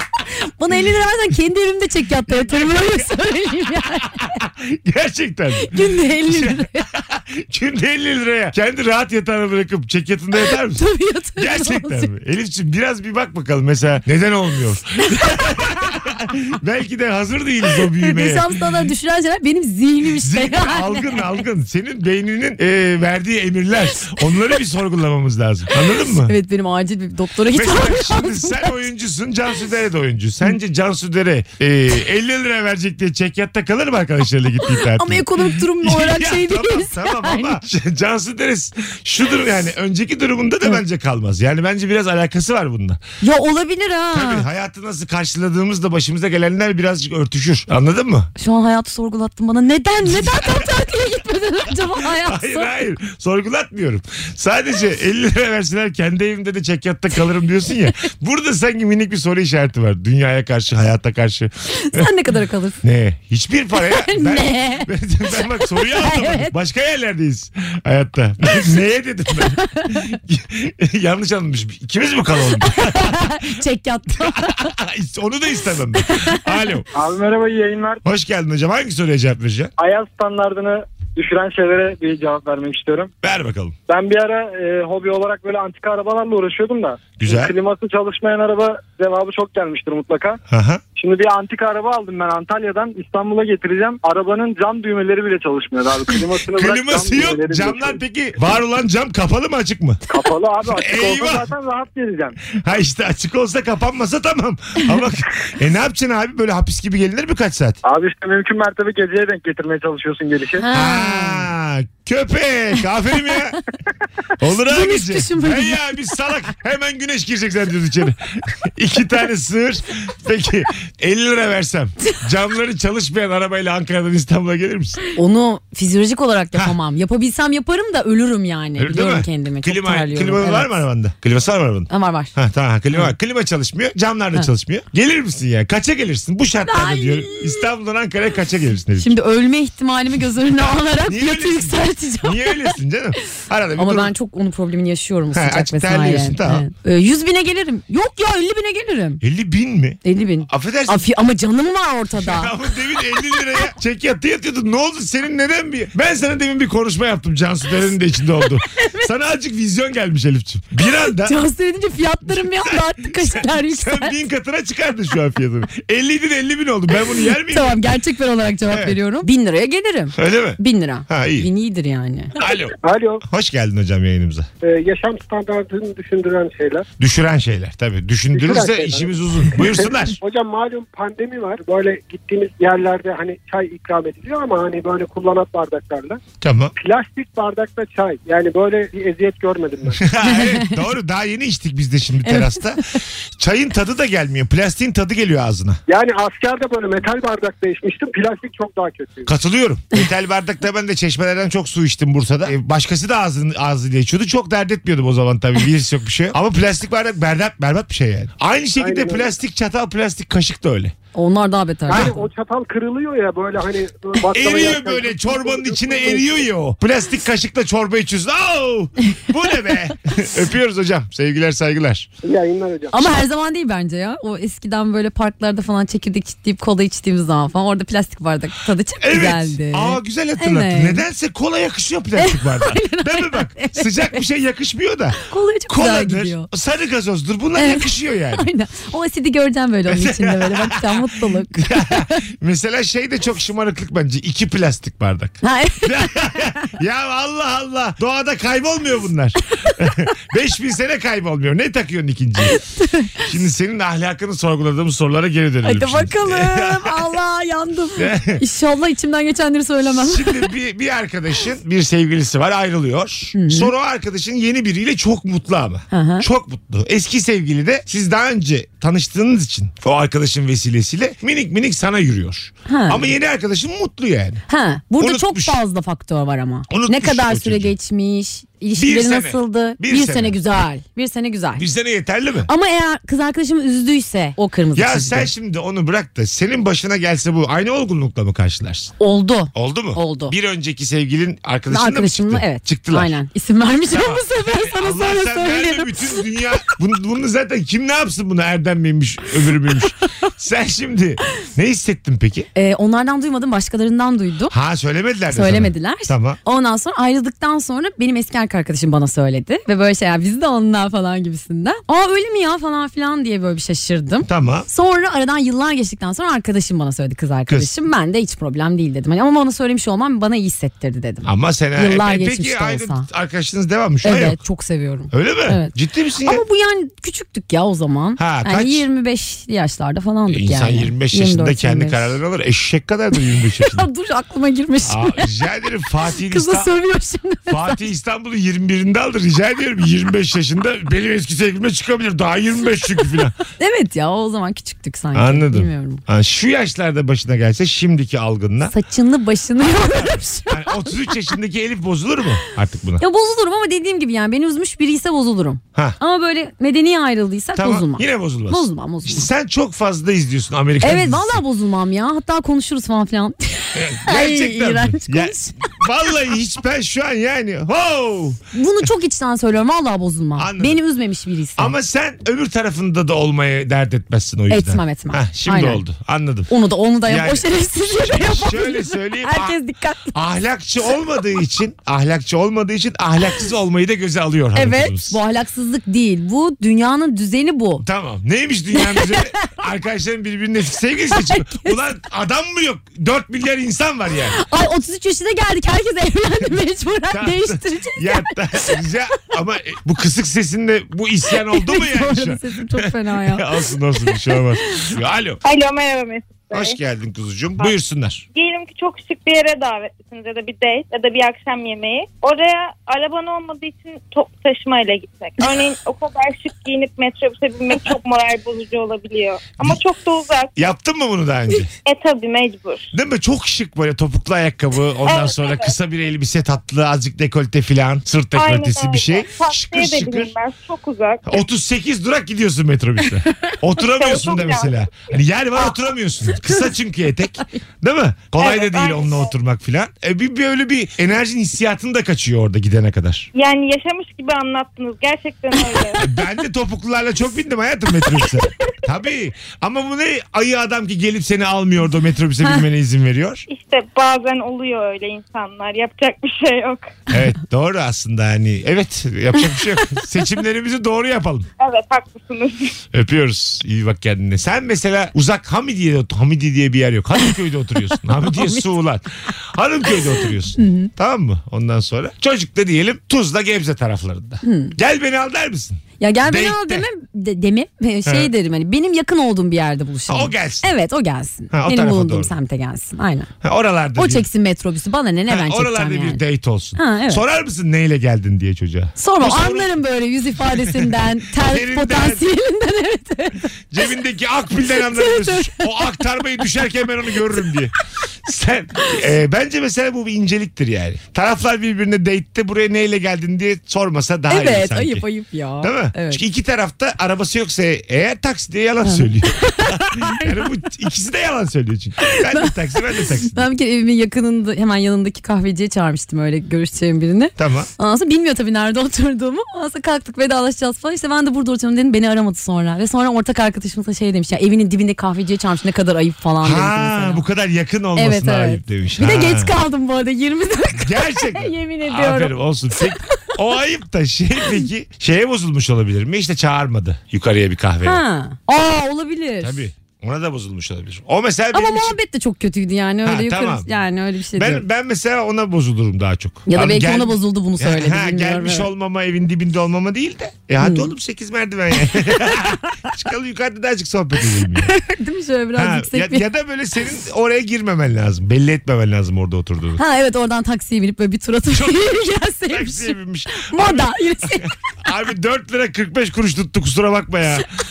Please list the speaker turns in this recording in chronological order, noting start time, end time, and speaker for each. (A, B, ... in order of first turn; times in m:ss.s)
0:00.2-0:04.4 A
0:02.3-0:03.1 B
0:04.2-0:10.8 B
0:05.6-0:06.9 A
0:10.7-0:12.1 A
0:11.4-0:18.5 B
0:15.1-0:15.9 A
0:17.8-0:21.4 A
0:20.1-0:26.3 B
0:26.0-0:28.8 A
0:27.5-0:43.0 B
0:34.6-0:37.6 A
0:43.2-0:44.4 A
0:44.1-0:48.3 B
0:48.4-0:52.8 A
0:50.0-0:50.7 B
0:52.0-1:02.1 B
1:01.7-1:02.8 A
1:02.8-1:13.5 B
1:03.7-1:06.5 A
1:09.6-1:10.1 A
1:12.6-1:14.7 A
1:14.2-1:16.9 B
1:16.0-1:16.6 A
1:16.9-1:18.0 C
1:18.0-1:19.7 B
1:19.8-1:23.1 C
1:23.2-1:23.8 B
1:23.9-1:30.4 C
1:27.2-1:27.5 B
1:30.5-1:30.8 B
1:31.0-1:38.0 C
1:36.5-1:40.0 B
1:40.1-1:42.4 C
1:40.6-1:41.5 B
1:42.6-1:47.8 B
1:47.8-1:50.6 C
1:50.6-1:51.5 A
1:50.7-1:53.6 B
1:54.4-2:05.0 B
1:54.7-1:55.8 A
2:05.1-2:10.7 A
2:08.8-2:19.2 B
2:11.9-2:12.3 A
2:16.6-2:17.7 A
2:19.0-2:22.8 A
2:21.0-2:24.1 B
2:23.8-2:29.2 A
2:25.3-2:26.7 B
2:29.2-2:31.1 B
2:30.0-2:32.6 A
2:32.2-2:41.4 B
2:38.7-2:39.1 A
2:41.0-2:44.2 A
2:42.3-2:47.9 B
2:47.5-2:52.3 A
2:48.6-2:49.0 B
2:50.1-2:51.5 B
2:52.3-2:54.5 B
2:52.8-2:53.2 D
2:54.6-2:56.8 D
2:57.0-3:00.2 B
2:58.3-3:06.2 D
3:06.4-3:06.7 B
3:06.8-3:10.0 D
3:10.0-3:15.8 B
3:10.2-3:10.8 A
3:12.2-3:13.0 A
3:15.9-3:19.3 D
3:19.3-3:30.9 B
3:28.8-3:29.3 D
3:31.1-3:32.1 A
3:31.9-3:36.4 D
3:34.3-3:42.1 B
3:42.2-3:43.0 D
3:42.9-3:51.0 A
3:49.0-3:58.4 B
3:52.2-3:54.2 A
3:55.2-3:56.5 A
3:57.6-4:02.2 A
3:59.9-4:12.6 B
4:05.4-4:06.6 A
4:12.4-4:13.2 A
4:13.2-4:17.1 B
4:15.6-4:20.5 A
4:18.0-4:18.4 B
4:19.9-4:34.4 B
4:23.3-4:23.7 A
4:25.9-4:26.2 A
4:32.7-4:33.1 A
4:34.5-4:41.6 A
4:35.0-4:35.6 B
4:36.7-4:37.7 B
4:38.8-4:40.4 B
4:41.6-4:42.5 B
4:42.5-4:45.3 A
4:44.7-4:48.9 B
4:49.0-4:50.3 A
4:49.5-4:53.1 B
4:51.7-4:56.2 A
4:53.9-5:02.5 B
5:02.5-5:04.5 A
5:04.5-5:06.4 B
5:05.3-5:23.1 A
5:14.2-5:14.7 B
5:21.2-5:24.4 B
5:24.0-5:25.7 A
5:25.1-5:26.4 B
5:26.2-5:32.2 A
5:28.2-5:28.8 B
5:30.3-5:33.8 B
5:33.6-5:35.3 A
5:34.8-5:36.7 B
5:36.2-5:37.8 A
5:37.5-5:43.4 B
5:43.6-5:46.0 A
5:45.1-5:48.7 B
5:48.7-5:51.2 A
5:49.8-5:53.0 B
5:53.0-5:59.3 A
5:57.6-6:01.4 B
6:00.8-6:05.8 A
6:03.7-6:08.4 B
6:08.5-6:11.7 A
6:10.4-6:10.8 B
6:11.6-6:16.5 B
6:14.5-6:15.8 A
6:16.5-6:20.2 A
6:17.0-6:19.6 B
6:20.1-6:25.2 B
6:24.5-6:27.8 A
6:27.8-6:34.4 B
6:28.7-6:29.5 A
6:31.1-6:31.8 A
6:34.3-6:38.8 A
6:37.1-6:45.4 B
6:41.3-6:44.9 A
6:45.4-6:46.8 E
6:46.5-6:48.2 B
6:48.3-7:00.5 E
7:00.6-7:01.7 B
7:01.8-7:02.9 E
7:02.9-7:10.3 B
7:05.0-7:05.7 E
7:08.3-7:11.3 E
7:11.3-7:23.3 B
7:13.8-7:14.7 E
7:18.4-7:19.3 E
7:23.3-7:26.0 E
7:26.0-7:33.4 B
7:33.5-7:37.0 E
7:37.1-7:41.5 B
7:41.6-7:42.7 E
7:42.9-7:56.8 B
7:48.2-7:48.6 A
7:50.6-7:50.9 A
7:54.4-7:54.7 A
7:56.0-8:03.3 A
7:58.0-7:58.3 B
8:00.1-8:00.7 B
8:01.5-8:02.3 B
8:03.4-8:04.2 B
8:04.0-8:06.2 A
8:05.3-8:09.8 B
8:06.7-8:07.2 A
8:09.0-8:13.5 A
8:10.5-8:12.2 B
8:13.7-8:17.7 B
8:14.7-8:16.0 A
8:18.2-8:25.0 B
8:24.3-8:26.2 A
8:25.6-8:33.5 B
8:28.8-8:30.4 A
8:32.0-8:47.2 A
8:37.4-8:37.7 B
8:46.4-8:49.5 B
8:48.0-8:53.2 A
8:50.7-8:58.0 B
8:57.8-8:59.6 A
8:59.4-9:02.0 B
9:01.5-9:04.6 A
9:03.0-9:03.7 B
9:04.3-9:14.7 B
9:06.5-9:08.7 A
9:10.6-9:10.9 A
9:11.9-9:12.9 A
9:14.5-9:16.2 A
9:15.6-9:19.8 B
9:19.8-9:24.5 A
9:21.5-9:21.9 B
9:22.5-9:27.5 B